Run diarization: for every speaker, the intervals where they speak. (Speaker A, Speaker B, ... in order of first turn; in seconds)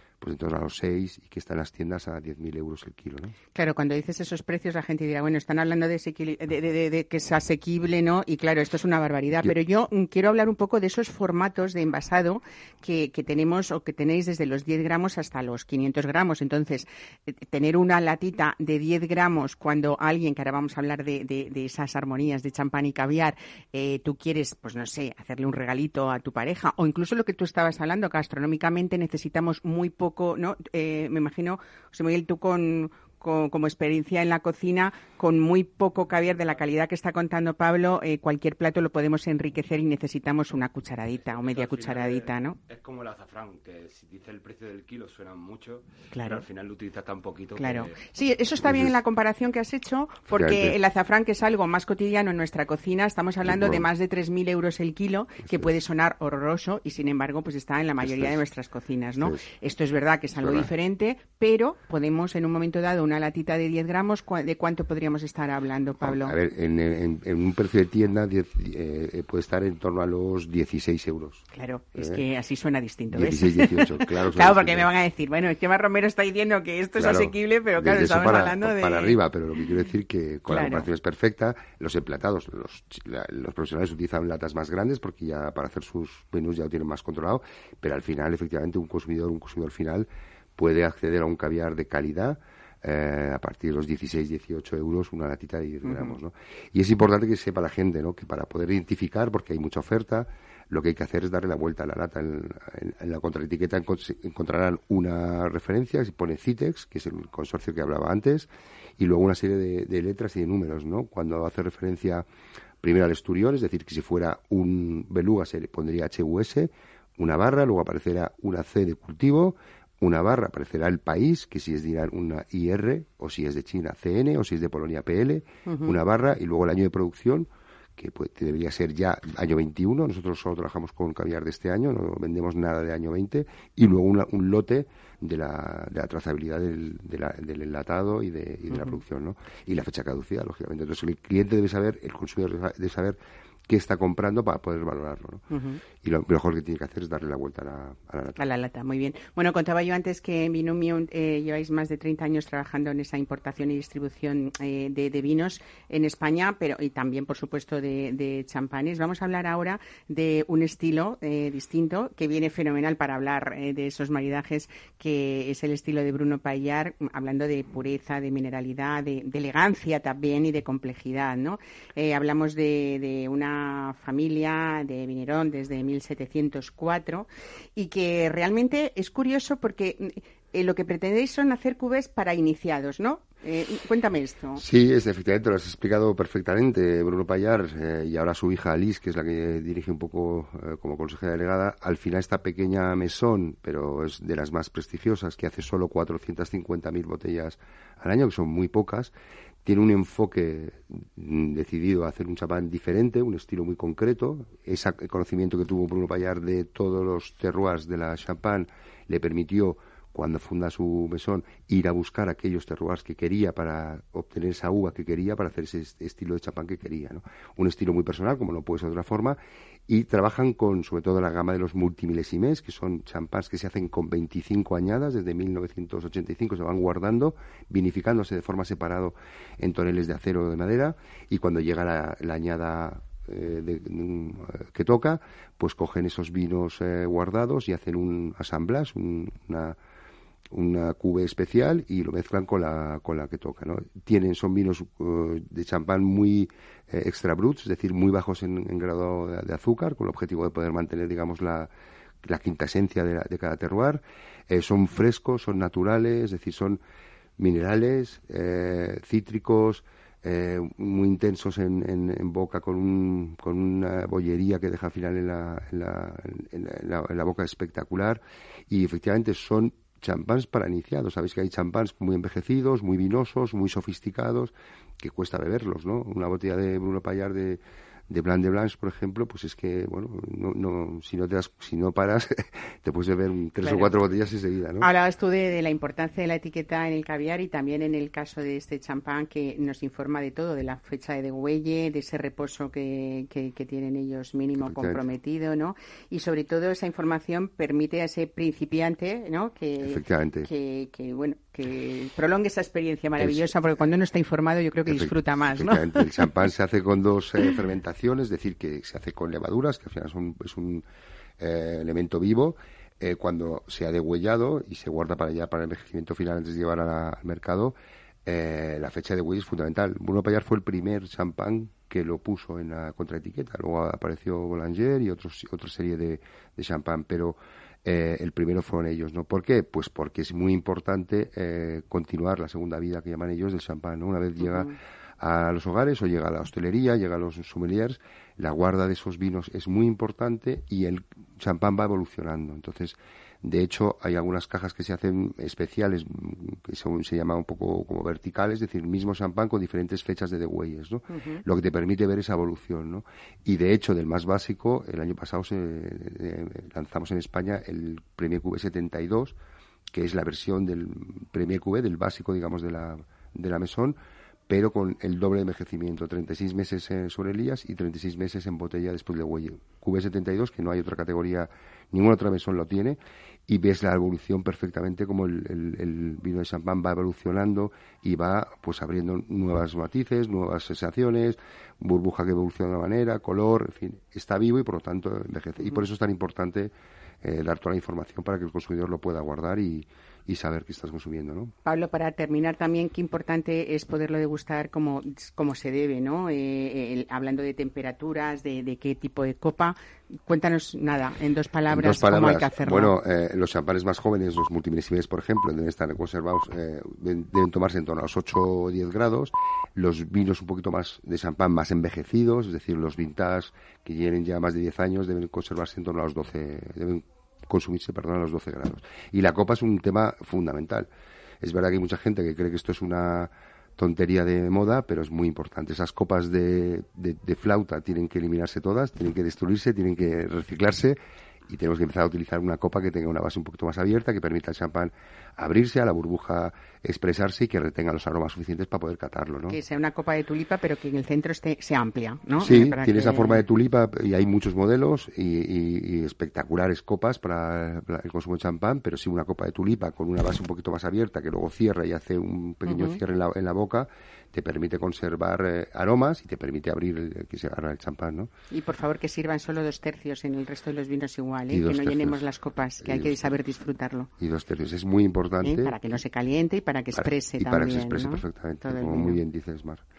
Speaker A: 0.2-3.4, 48.6-48.9, 50.3-50.8, 53.4-53.8, 58.0-58.4, 60.4-60.7, 66.0-72.2, 73.1-74.9, 77.0-112.2, 112.8-145.5, 146.0-148.4, 184.6-239.8, 240.5-251.7, 252.2-256.8, 257.4-284.9, 294.6-295.0, 299.8-300.5, 303.2-303.5, 304.9-310.9, 311.4-359.4, 359.9-364.0, 364.5-391.5, 401.7-420.9, 421.4-439.6, 442.4-458.3, 461.5-462.2, 462.8-463.4, 464.2-465.8, 466.9-469.8
Speaker B: 3.5-42.6, 46.1-46.4, 47.6-66.3, 71.5-79.2, 80.5-80.9, 95.8-96.2, 125.7-126.0, 138.7-139.0, 145.5-145.8, 148.4-184.6, 283.6-283.9, 284.8-306.3, 334.4-334.7, 351.1-351.4, 391.6-402.9, 439.5-443.4, 452.7-453.0, 458.5-464.1, 465.4-469.2
Speaker C: 41.2-48.0